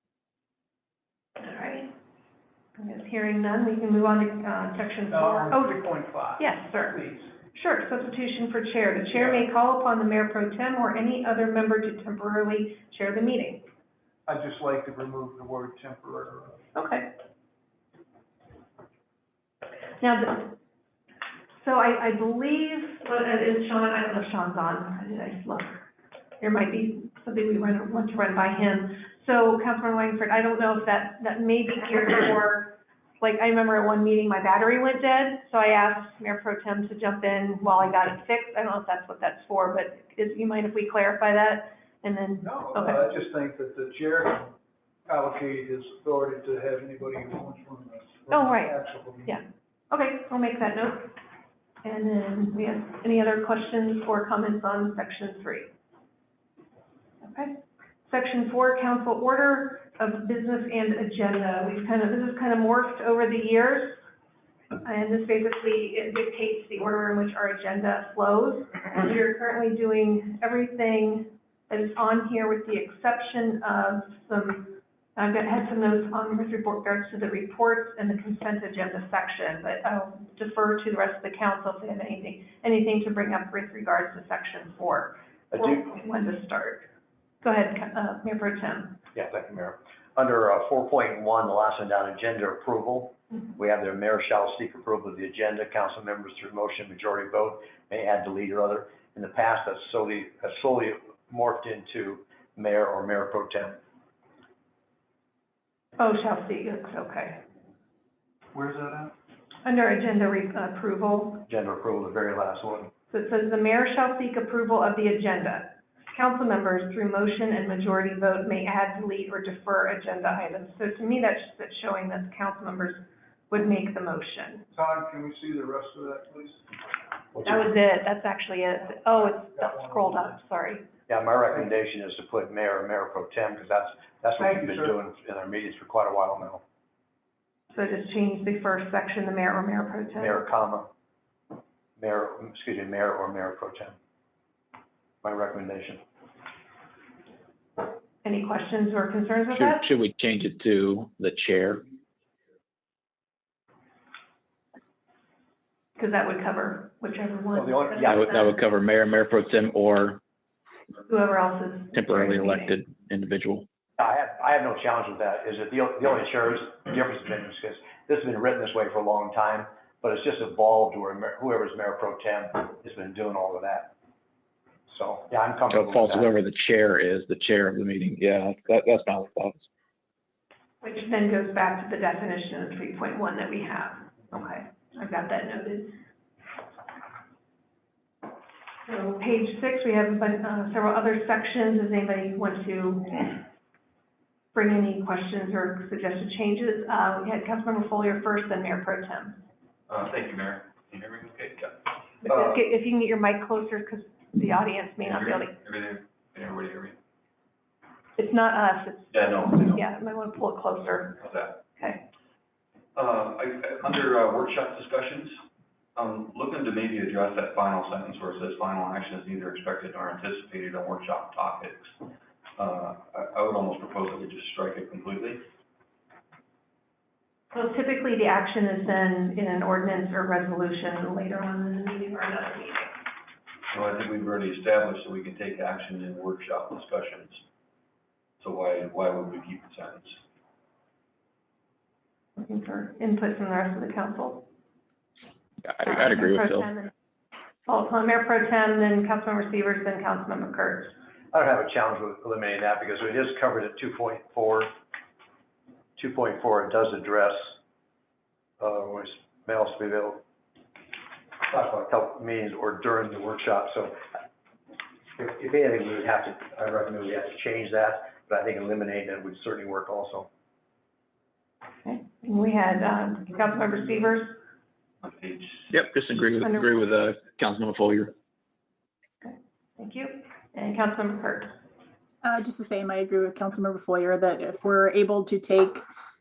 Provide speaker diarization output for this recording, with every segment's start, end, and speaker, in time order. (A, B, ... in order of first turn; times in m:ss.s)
0:01.4-0:01.9 A
0:02.8-0:05.8 A
0:05.1-0:07.3 B
0:06.4-0:07.0 A
0:07.5-0:13.6 A
0:09.1-0:09.5 B
0:14.3-0:16.6 B
0:16.7-0:17.1 A
0:20.0-0:20.5 A
0:21.6-0:25.8 A
0:26.4-0:43.1 A
0:42.4-0:44.6 B
0:45.1-0:49.4 B
0:48.3-0:51.1 A
0:51.8-0:55.7 A
0:57.2-1:04.0 A
1:04.8-1:26.9 A
1:25.5-1:25.9 C
1:27.4-1:29.0 A
1:29.1-1:43.8 C
1:46.0-1:47.4 A
1:48.5-1:49.1 B
1:49.6-1:51.5 A
1:51.5-1:52.9 C
1:53.1-2:04.6 A
2:04.7-2:06.7 B
2:07.3-2:07.7 C
2:07.4-2:10.8 A
2:08.9-2:10.4 B
2:11.1-2:16.6 C
2:14.4-2:15.0 B
2:17.7-2:20.4 A
2:20.2-2:20.9 C
2:22.0-2:23.9 C
2:25.2-2:26.0 C
2:28.2-2:29.8 A
2:29.5-2:31.8 D
2:36.0-2:38.6 A
2:37.5-2:38.2 C
2:38.0-2:40.2 D
2:41.1-2:42.7 A
2:41.9-2:43.6 D
2:44.0-2:53.9 C
2:54.9-2:56.3 C
2:55.7-2:59.7 D
3:00.8-3:05.9 A
3:08.8-3:13.4 A
3:14.5-3:19.4 A
3:19.9-3:21.8 E
3:22.2-3:25.5 A
3:22.3-3:22.6 C
3:25.0-3:27.0 E
3:28.2-3:31.2 A
3:29.1-3:29.8 E
3:31.2-3:31.6 E
3:31.8-3:32.0 A
3:32.9-3:35.4 E
3:36.0-3:41.9 E
3:42.6-3:45.4 E
3:47.5-3:52.9 A
3:53.7-3:57.4 E
3:58.4-4:00.2 E
4:02.4-4:04.5 A
4:05.6-4:06.7 D
4:05.8-4:06.9 A
4:07.6-4:10.9 A
4:11.3-4:14.7 C
4:16.0-4:17.5 C
4:18.6-4:20.2 C
4:21.5-4:24.0 C
4:25.2-4:30.3 C
4:31.8-4:34.4 A
4:35.0-4:35.7 E
4:35.7-4:38.1 D
4:36.4-4:36.7 A
4:39.2-4:41.5 A
4:42.2-4:45.8 F